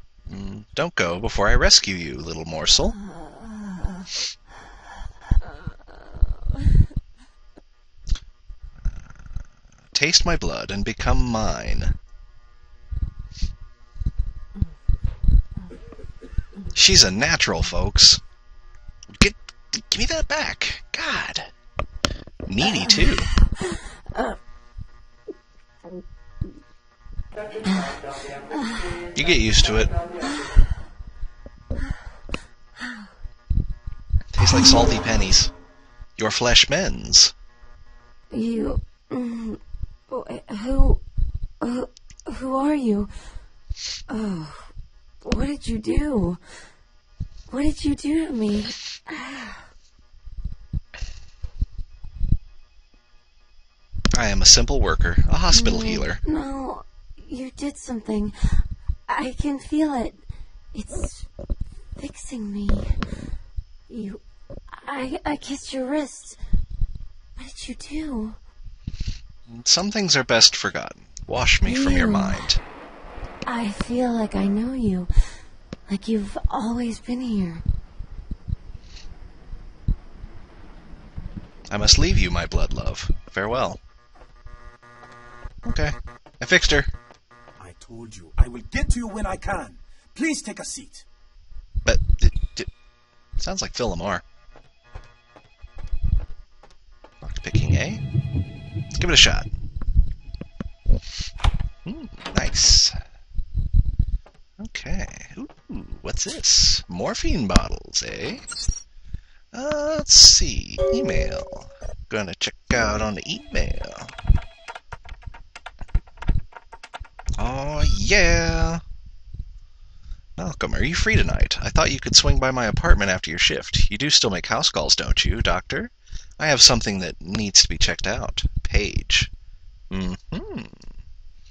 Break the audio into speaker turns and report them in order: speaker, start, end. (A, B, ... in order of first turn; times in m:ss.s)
0:00.3-0:03.0 A
0:03.0-0:04.1 B
0:05.4-0:06.4 B
0:08.8-0:09.2 A
0:09.9-0:11.9 A
0:16.7-0:18.2 A
0:19.2-0:21.5 A
0:22.4-0:23.3 A
0:23.7-0:24.4 B
0:27.7-0:28.0 B
0:28.6-0:28.9 B
0:29.1-0:29.9 A
0:34.3-0:35.5 A
0:36.2-0:37.3 A
0:38.3-0:39.6 B
0:40.1-0:41.0 B
0:41.6-0:43.1 B
0:44.1-0:44.7 B
0:45.2-0:46.4 B
0:47.5-0:49.7 B
0:54.1-0:56.2 A
0:55.5-1:00.2 B
1:00.7-1:01.2 B
1:02.0-1:03.0 B
1:03.9-1:04.2 B
1:04.7-1:06.4 B
1:07.4-1:08.4 B
1:09.5-1:12.6 A
1:11.6-1:12.4 B
1:13.4-1:15.1 B
1:15.9-1:17.6 B
1:21.7-1:23.8 A
1:25.6-1:26.9 A
1:27.6-1:31.0 C
1:31.8-1:32.7 A
1:33.4-1:34.2 A
1:37.2-1:38.0 A
1:38.9-1:39.5 A
1:41.8-1:43.0 A
1:44.6-1:48.4 A
1:49.5-1:54.1 A
1:57.4-1:58.8 A
2:00.4-2:09.3 A
2:09.9-2:10.8 A